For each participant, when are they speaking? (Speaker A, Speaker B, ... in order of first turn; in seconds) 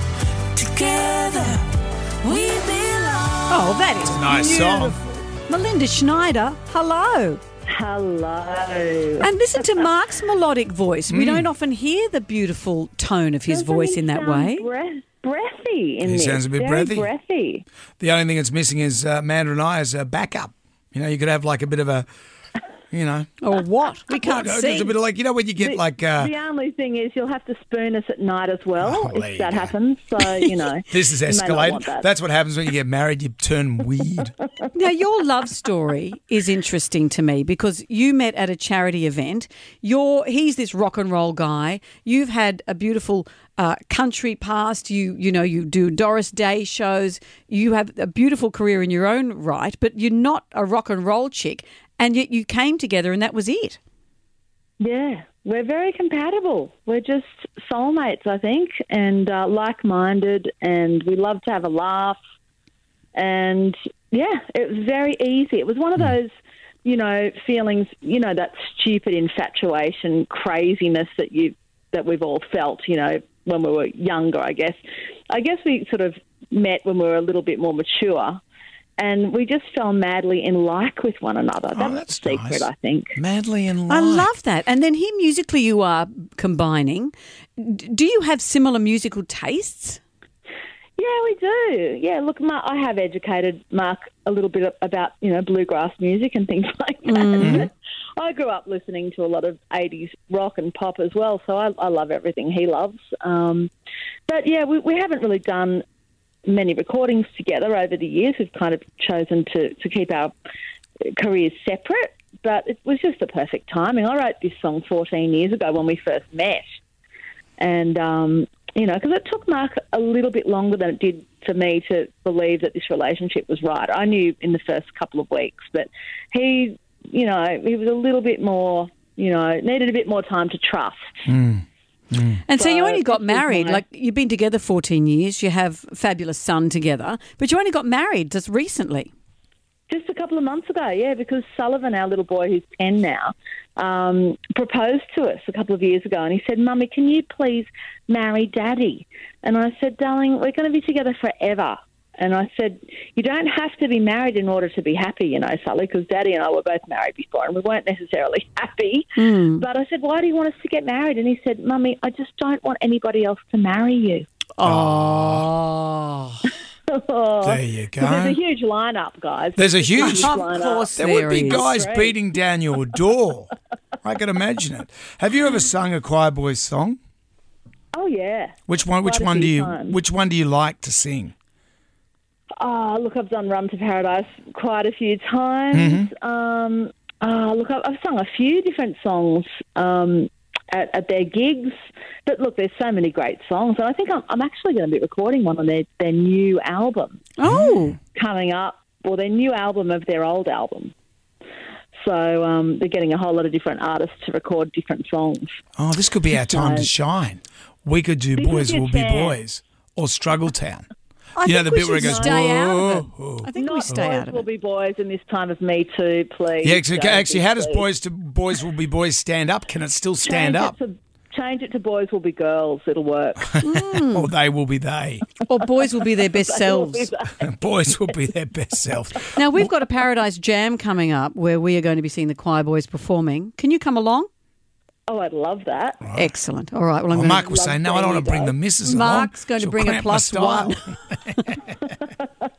Speaker A: 0.5-3.5
Speaker B: 3.5-7.4, 9.2-14.6, 23.4-24.9, 34.7-53.8, 83.9-90.0, 97.0-97.7, 132.4-139.1, 159.2-159.7, 164.6-166.4, 170.0-171.7, 197.4-198.0, 211.3-214.4, 223.6-224.3, 225.5-227.1, 229.3-234.3, 236.1-237.6, 238.8-240.8
Speaker C: 4.0-5.2, 11.1-11.5, 16.0-17.1, 18.0-22.1, 22.9-23.3, 24.2-26.3, 28.8-29.7, 30.9-34.3, 81.7-84.3, 97.4-97.7, 131.3-132.4, 164.6-165.5, 167.4-168.3, 169.6-170.3, 170.9-177.0, 178.7-181.3, 185.7-186.1, 197.4-197.9, 205.8-210.9, 211.4-214.1, 216.6-220.7, 223.5-225.3, 227.4-229.7, 236.0-236.3, 237.1-241.7
Speaker D: 7.7-9.3, 13.5-17.6, 25.6-32.1, 54.8-62.2, 63.1-78.4, 79.0-83.2, 91.0-103.7, 104.3-105.8, 106.5-110.3, 111.1-116.8, 117.6-131.2, 132.6-133.8, 139.9-164.3, 166.9-170.8, 171.6-172.1, 177.9-180.0, 182.6-197.2, 198.1-200.9, 202.0-205.5, 206.5-206.9, 208.4-209.4, 212.0-212.3, 213.5-217.8, 220.2-223.5, 226.3-227.4, 235.1-236.0, 237.5-238.6